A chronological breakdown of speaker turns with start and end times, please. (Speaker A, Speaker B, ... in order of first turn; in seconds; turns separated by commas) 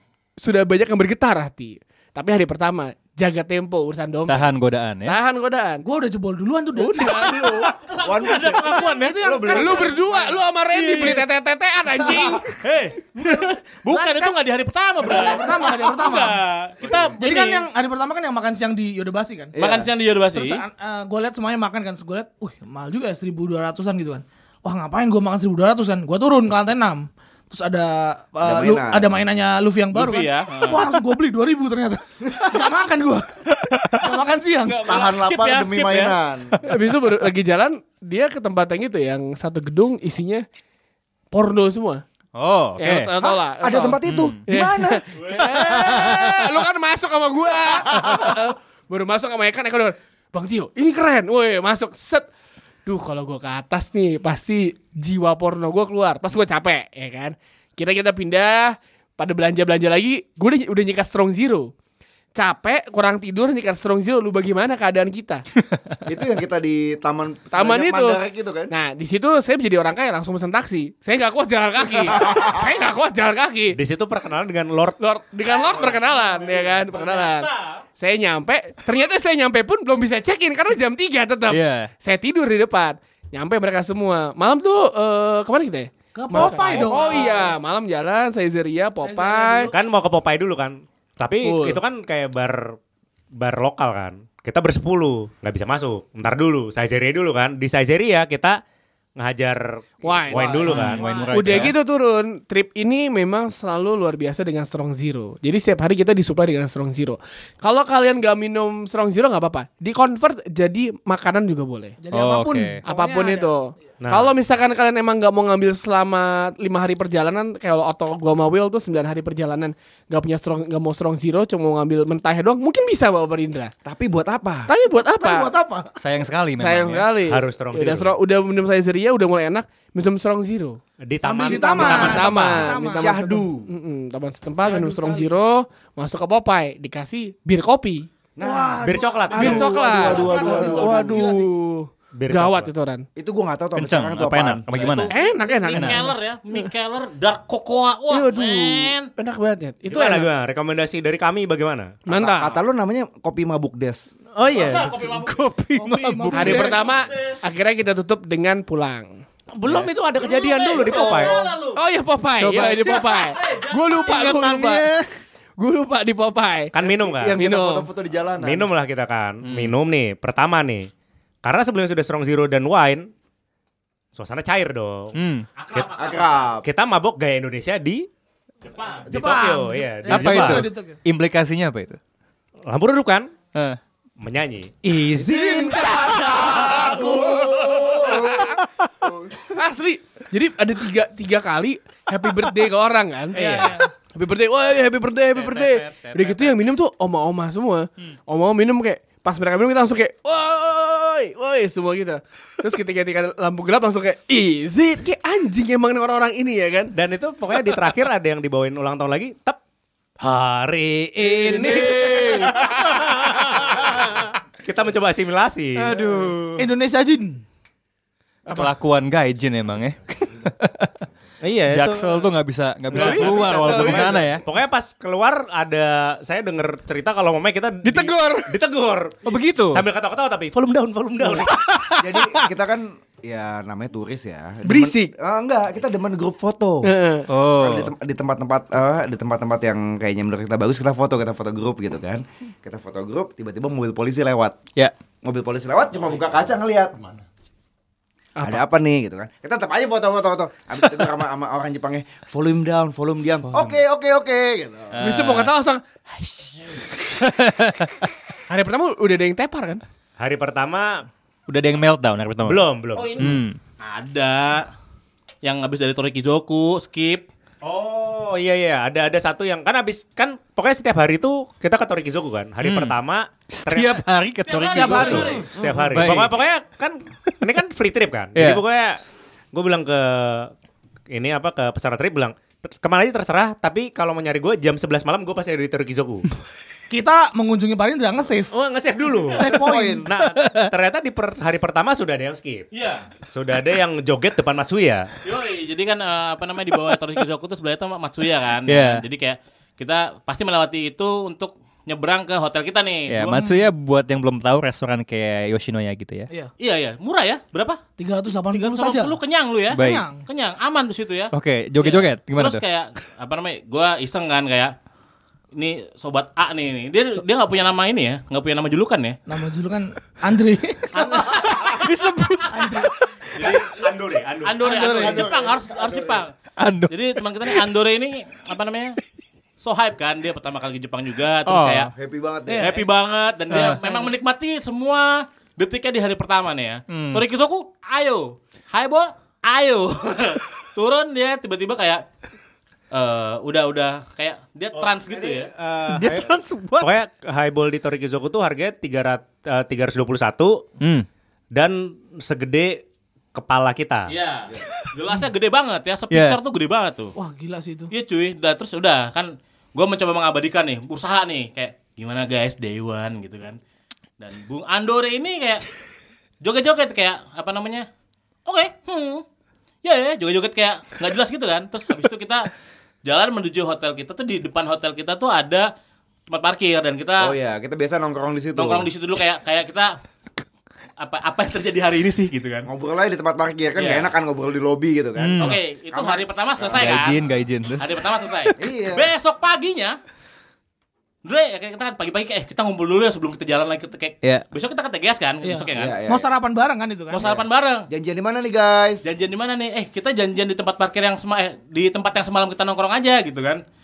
Speaker A: 0.4-4.5, Speaker B: 4.3-5.2, Speaker A: 5.0-5.8, Speaker C: 5.8-10.4, Speaker A: 6.8-7.8, Speaker D: 7.8-9.5, Speaker E: 8.0-10.3, Speaker A: 9.5-12.5, Speaker D: 10.8-11.2, Speaker D: 12.4-17.6, Speaker C: 13.9-14.4, Speaker C: 15.0-19.5, Speaker E: 16.8-17.2, Speaker E: 19.5-19.9, Speaker D: 19.6-20.6, Speaker C: 20.3-33.4, Speaker E: 28.4-29.1, Speaker D: 29.9-31.0, Speaker B: 33.7-34.0, Speaker C: 34.0-34.9, Speaker D: 34.7-36.2, Speaker E: 34.8-36.6, Speaker A: 36.6-40.5, Speaker A: 41.3-42.0, Speaker B: 42.4-43.1, Speaker A: 42.8-52.3, Speaker E: 43.2-45.3, Speaker B: 44.0-44.4, Speaker B: 45.4-46.5, Speaker A: 52.9-61.7, Speaker A: 62.3-65.4, Speaker E: 66.1-68.7, Speaker A: 67.5-73.8, Speaker E: 72.0-72.8, Speaker F: 73.8-75.0, Speaker A: 75.0-89.7, Speaker C: 75.9-76.6, Speaker D: 76.9-77.8, Speaker B: 81.5-81.9, Speaker C: 86.2-87.5, Speaker F: 86.3-87.1, Speaker C: 89.0-89.8, Speaker F: 89.7-92.8, Speaker A: 91.4-91.8, Speaker F: 93.3-98.6, Speaker F: 99.2-101.7, Speaker A: 100.0-112.0, Speaker C: 100.3-100.7, Speaker B: 100.7-101.8, Speaker C: 112.0-113.5, Speaker B: 112.1-112.8, Speaker A: 112.8-123.7, Speaker F: 114.0-114.3, Speaker E: 123.8-124.7, Speaker A: 124.7-125.5, Speaker C: 125.2-126.0, Speaker B: 126.0-127.2, Speaker A: 126.6-130.8, Speaker F: 127.2-128.1, Speaker F: 131.0-132.6, Speaker C: 131.2-133.3, Speaker A: 131.6-138.1, Speaker E: 132.6-133.7, Speaker C: 134.6-135.3, Speaker E: 138.4-141.3, Speaker C: 138.4-141.5, Speaker F: 138.8-139.7, Speaker A: 139.3-143.1, Speaker F: 142.1-142.7, Speaker E: 143.2-144.7, Speaker B: 143.8-145.1, Speaker D: 144.7-149.1, Speaker A: 145.1-146.7, Speaker B: 145.7-146.0, Speaker A: 148.1-150.3, Speaker F: 149.9-151.9, Speaker A: 152.1-152.6, Speaker E: 152.1-154.1, Speaker F: 154.3-155.1, Speaker D: 154.5-155.4, Speaker B: 155.1-156.8, Speaker C: 155.8-157.0, Speaker A: 156.3-159.1, Speaker D: 156.7-157.4, Speaker F: 159.6-161.4, Speaker D: 160.2-161.8, Speaker E: 160.8-161.4, Speaker A: 161.8-164.9, Speaker B: 162.4-163.0, Speaker D: 162.7-164.3, Speaker E: 164.1-164.8, Speaker A: 165.6-166.7, Speaker F: 166.7-167.4, Speaker E: 166.8-168.7, Speaker A: 167.3-167.9, Speaker F: 168.4-170.9, Speaker B: 169.4-169.8, Speaker F: 171.4-173.1, Speaker F: 174.1-175.2, Speaker B: 175.1-175.5, Speaker D: 175.6-176.5, Speaker E: 175.9-176.7, Speaker F: 176.6-178.1, Speaker D: 178.7-179.1, Speaker C: 178.9-181.0, Speaker F: 179.1-180.7, Speaker B: 180.1-182.0, Speaker F: 182.7-183.3, Speaker B: 183.5-183.8, Speaker F: 184.2-187.0, Speaker E: 185.2-189.4, Speaker C: 185.5-186.4, Speaker A: 185.9-188.6, Speaker A: 189.4-206.9, Speaker F: 193.3-193.8, Speaker C: 193.3-193.9, Speaker F: 195.3-196.5, Speaker F: 206.9-209.6, Speaker F: 210.2-213.9, Speaker B: 211.4-214.3, Speaker F: 214.6-216.0, Speaker B: 215.8-216.7, Speaker C: 216.6-217.4, Speaker B: 218.5-220.9, Speaker F: 221.4-222.3, Speaker B: 221.7-224.4, Speaker F: 222.9-231.6, Speaker A: 222.9-224.2, Speaker A: 227.8-228.6, Speaker B: 229.2-229.8, Speaker A: 231.2-231.9, Speaker E: 232.0-244.6, Speaker A: 234.6-235.1, Speaker A: 236.8-237.3, Speaker B: 237.3-237.9, Speaker E: 245.2-247.1, Speaker E: 248.4-255.0, Speaker B: 254.9-255.5, Speaker A: 255.0-256.9, Speaker B: 257.1-258.1, Speaker A: 258.5-259.8, Speaker F: 260.2-261.1, Speaker B: 261.5-262.6, Speaker F: 262.4-263.2, Speaker D: 263.0-264.7, Speaker B: 263.1-263.6, Speaker D: 265.4-267.3, Speaker F: 267.6-274.0, Speaker B: 272.6-275.3, Speaker D: 274.4-275.5, Speaker C: 274.7-275.5, Speaker F: 274.7-279.0, Speaker E: 275.6-275.9, Speaker B: 275.9-276.4, Speaker B: 278.4-278.6, Speaker F: 279.5-280.5, Speaker F: 281.1-286.4, Speaker C: 286.9-288.5, Speaker F: 288.5-292.7, Speaker C: 289.3-290.1, Speaker E: 289.5-290.1, Speaker B: 290.2-290.7, Speaker D: 292.7-293.1, Speaker F: 293.3-295.1, Speaker D: 295.2-303.5, Speaker B: 298.7-299.1, Speaker B: 303.1-306.3, Speaker D: 306.6-307.8, Speaker C: 308.0-309.2, Speaker D: 308.4-314.8, Speaker B: 309.7-310.1, Speaker C: 309.8-310.2, Speaker B: 311.3-312.6, Speaker D: 315.6-319.2, Speaker C: 319.3-321.4, Speaker D: 320.9-321.9, Speaker B: 321.5-323.1, Speaker C: 322.5-322.9, Speaker D: 323.4-323.7, Speaker F: 323.4-325.2, Speaker D: 324.4-326.3, Speaker C: 324.6-325.2, Speaker E: 324.8-326.2, Speaker B: 326.6-327.6, Speaker D: 326.9-329.0, Speaker D: 329.6-331.9, Speaker F: 331.5-331.9, Speaker E: 331.9-332.8, Speaker C: 332.5-332.9, Speaker D: 332.6-342.1, Speaker B: 333.5-333.8, Speaker C: 333.7-334.1, Speaker B: 336.9-337.2, Speaker D: 342.9-345.5, Speaker F: 344.8-350.6, Speaker B: 345.9-347.0, Speaker B: 350.8-351.1, Speaker F: 351.5-352.8, Speaker F: 353.3-354.1, Speaker D: 354.1-357.1, Speaker B: 356.1-356.4, Speaker C: 357.1-357.9, Speaker D: 357.9-363.6, Speaker D: 364.2-365.7, Speaker D: 366.4-367.9, Speaker D: 368.5-369.2, Speaker D: 369.8-372.5, Speaker D: 373.0-375.7, Speaker D: 376.3-377.4, Speaker E: 377.2-378.9, Speaker D: 378.6-380.0, Speaker D: 381.0-382.7, Speaker E: 382.6-386.9, Speaker D: 383.8-384.1, Speaker B: 385.2-385.6, Speaker D: 385.3-387.2, Speaker B: 386.7-388.0, Speaker D: 387.8-390.0, Speaker E: 388.6-389.1, Speaker D: 391.2-396.0, Speaker C: 395.4-397.3, Speaker E: 395.8-396.3, Speaker D: 397.1-397.9, Speaker E: 397.2-399.1, Speaker D: 399.1-403.6